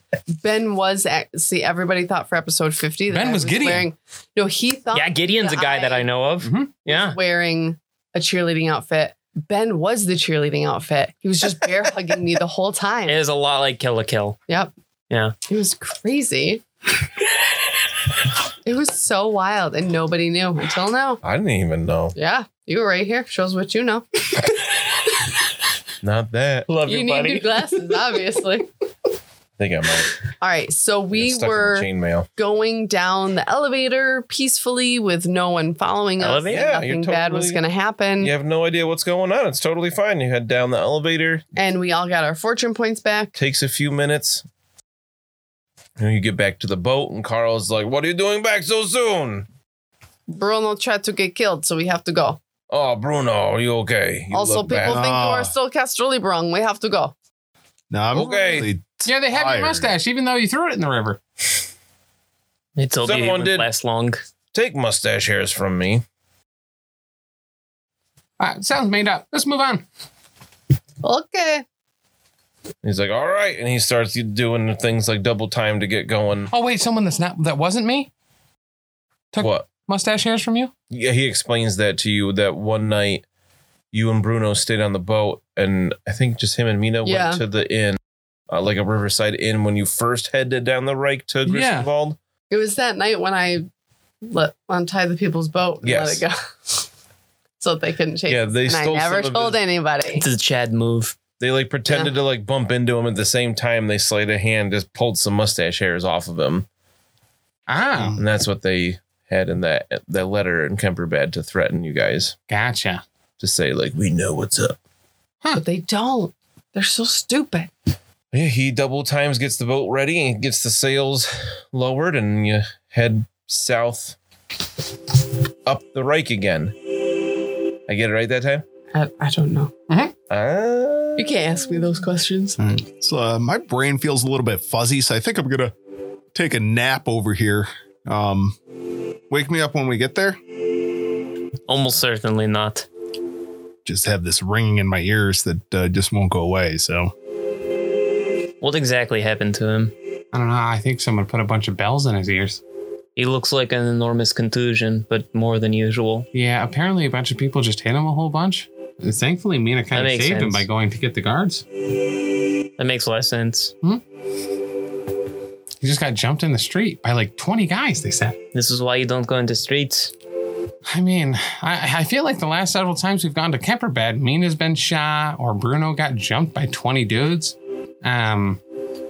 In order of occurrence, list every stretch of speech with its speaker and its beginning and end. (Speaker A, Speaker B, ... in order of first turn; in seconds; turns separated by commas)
Speaker A: 0.3-6.0, Speaker B: 3.1-3.9, Speaker C: 4.9-7.2, Speaker B: 6.4-6.7, Speaker A: 6.8-13.2, Speaker C: 13.1-14.4, Speaker C: 15.1-15.3, Speaker A: 15.5-16.6, Speaker A: 18.6-21.2, Speaker D: 21.2-22.1, Speaker A: 22.1-24.1, Speaker D: 26.0-26.7, Speaker C: 26.7-27.8, Speaker A: 26.8-28.7, Speaker D: 29.6-30.2, Speaker A: 30.4-38.3, Speaker D: 31.1-32.3, Speaker C: 36.2-36.6, Speaker D: 36.5-37.6, Speaker D: 38.2-41.4, Speaker A: 41.5-43.3, Speaker D: 43.4-44.4, Speaker D: 46.0-49.5, Speaker A: 50.3-52.4, Speaker D: 52.7-55.0, Speaker A: 54.3-57.1, Speaker E: 54.9-55.5, Speaker E: 57.9-59.9, Speaker D: 58.1-58.7, Speaker B: 59.0-61.2, Speaker C: 62.8-64.2, Speaker D: 63.0-63.7, Speaker D: 64.5-66.0, Speaker B: 68.4-69.8, Speaker A: 71.0-71.6, Speaker D: 72.8-76.5, Speaker B: 76.5-78.1, Speaker B: 79.3-80.7, Speaker D: 79.4-79.7, Speaker D: 80.9-83.2, Speaker D: 83.9-88.0, Speaker A: 87.0-87.4, Speaker D: 88.5-92.2, Speaker B: 91.5-91.9, Speaker A: 92.5-93.7, Speaker A: 94.2-96.8, Speaker D: 95.8-96.2, Speaker A: 97.6-100.2, Speaker D: 98.3-99.6, Speaker C: 100.1-101.2, Speaker D: 101.4-106.7, Speaker A: 101.9-102.1, Speaker B: 107.7-108.2, Speaker E: 108.0-108.2, Speaker D: 108.1-112.4, Speaker B: 112.5-113.0, Speaker D: 113.4-114.8, Speaker A: 115.5-117.7, Speaker D: 118.3-124.2, Speaker D: 125.7-126.7, Speaker D: 127.9-128.6, Speaker A: 128.9-129.7, Speaker D: 130.3-131.4, Speaker A: 131.2-132.6, Speaker E: 132.6-135.7, Speaker E: 136.3-138.6, Speaker E: 139.3-140.4, Speaker C: 141.7-142.8, Speaker E: 143.8-147.1, Speaker C: 148.6-149.9, Speaker B: 150.3-152.6, Speaker C: 153.2-156.3, Speaker B: 156.3-161.6, Speaker C: 159.9-160.7, Speaker C: 162.8-163.7, Speaker B: 165.8-168.4, Speaker C: 168.5-170.1, Speaker B: 170.9-178.6